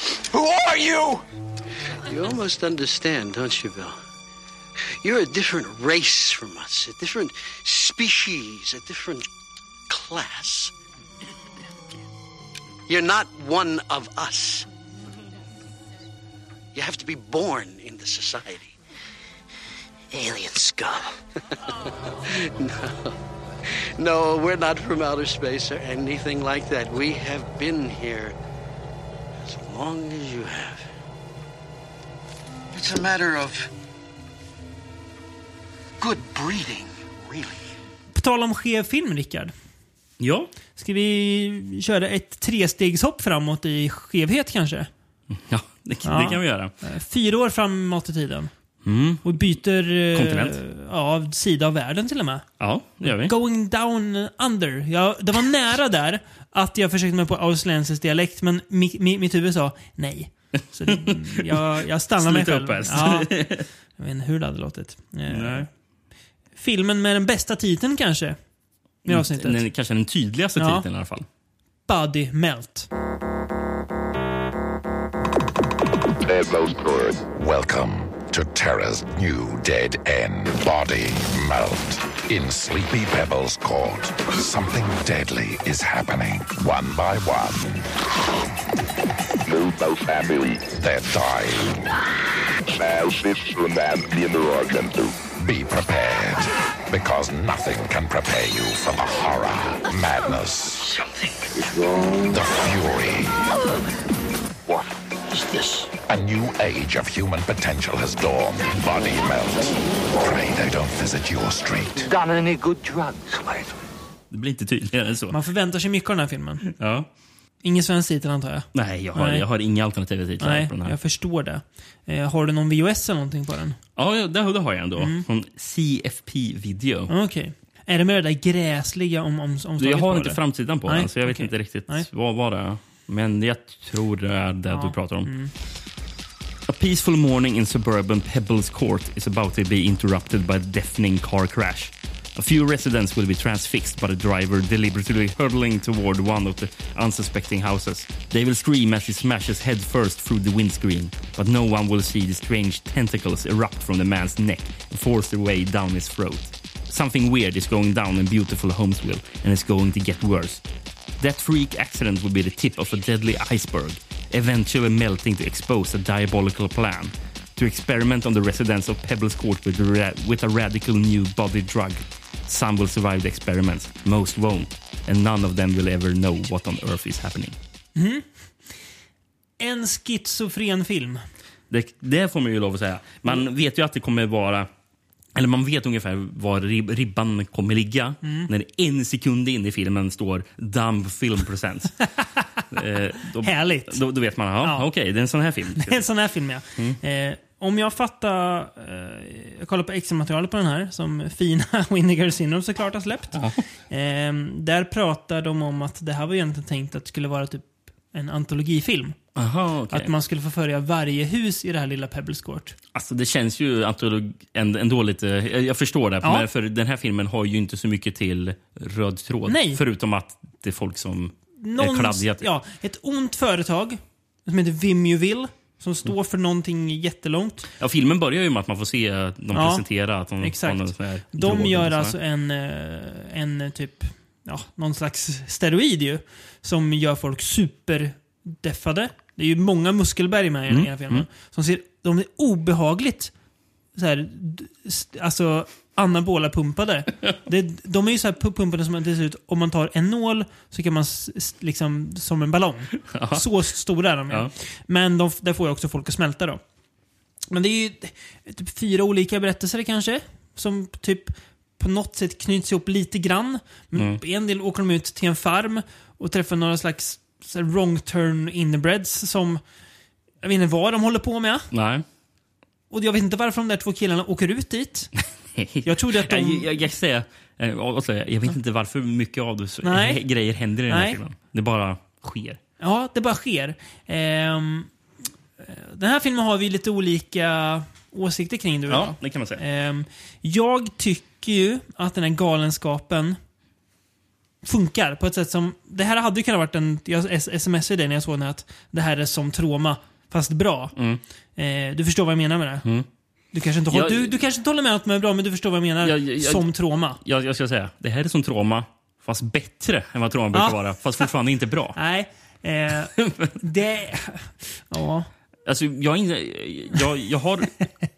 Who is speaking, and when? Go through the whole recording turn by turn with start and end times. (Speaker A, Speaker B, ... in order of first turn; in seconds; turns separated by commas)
Speaker A: 0.1-1.2, Speaker A: 2.0-4.0, Speaker A: 5.0-9.3, Speaker A: 9.9-10.7, Speaker A: 12.9-14.7, Speaker A: 16.7-18.8, Speaker A: 20.1-23.1, Speaker A: 23.7-28.4, Speaker A: 29.4-30.8, Speaker A: 32.7-33.7, Speaker A: 36.0-37.6, Speaker B: 38.1-39.5, Speaker C: 40.2-40.5, Speaker B: 40.8-44.9, Speaker C: 45.3-46.7, Speaker B: 46.0-48.5, Speaker C: 48.8-49.4, Speaker B: 49.2-52.5, Speaker C: 50.1-50.6, Speaker C: 52.6-53.3, Speaker B: 53.0-63.5, Speaker C: 60.8-63.7, Speaker B: 64.0-65.7, Speaker C: 65.3-65.7, Speaker B: 66.6-68.4, Speaker B: 69.0-69.6, Speaker C: 69.1-71.3, Speaker B: 70.6-70.8, Speaker B: 71.9-72.9, Speaker D: 76.2-77.3, Speaker E: 77.3-87.9, Speaker D: 89.5-90.7, Speaker E: 90.7-91.9, Speaker D: 92.7-95.2, Speaker E: 95.3-100.9, Speaker E: 102.3-103.5, Speaker E: 106.0-112.1, Speaker C: 114.3-115.4, Speaker B: 115.3-116.6, Speaker C: 116.6-117.1, Speaker B: 117.6-119.5, Speaker C: 118.7-121.0, Speaker B: 120.4-123.8, Speaker C: 124.0-127.1, Speaker B: 125.0-125.3, Speaker B: 127.1-132.1, Speaker C: 129.8-135.3, Speaker B: 134.7-135.5, Speaker C: 136.7-160.6, Speaker C: 161.2-177.6, Speaker B: 178.0-178.3, Speaker B: 179.6-181.2, Speaker C: 181.7-184.7, Speaker C: 185.3-192.0, Speaker B: 188.2-188.5, Speaker C: 192.7-196.0, Speaker B: 193.4-194.0, Speaker B: 194.6-194.9, Speaker B: 195.8-209.2, Speaker C: 209.3-210.1, Speaker B: 209.9-212.8, Speaker C: 212.9-222.5, Speaker B: 216.2-216.5, Speaker B: 219.5-219.8, Speaker B: 221.6-227.7, Speaker C: 227.8-232.2, Speaker B: 229.5-229.9, Speaker B: 230.4-243.3, Speaker C: 240.7-241.3, Speaker B: 243.9-256.6, Speaker C: 253.1-253.5, Speaker B: 257.5-269.6, Speaker C: 263.9-264.2, Speaker B: 270.4-271.7, Speaker C: 271.7-272.1, Speaker B: 272.9-275.1, Speaker C: 275.6-282.6, Speaker B: 275.8-276.7, Speaker B: 279.8-280.2, Speaker B: 280.9-281.2, Speaker B: 282.8-284.9, Speaker B: 285.6-293.4, Speaker C: 288.9-289.6, Speaker B: 294.6-300.9, Speaker C: 301.0-301.2, Speaker B: 301.6-302.9, Speaker B: 303.5-307.2, Speaker C: 303.9-304.4, Speaker C: 306.0-312.0, Speaker B: 310.5-311.2, Speaker B: 311.9-315.3, Speaker C: 313.1-313.5, Speaker C: 315.7-317.8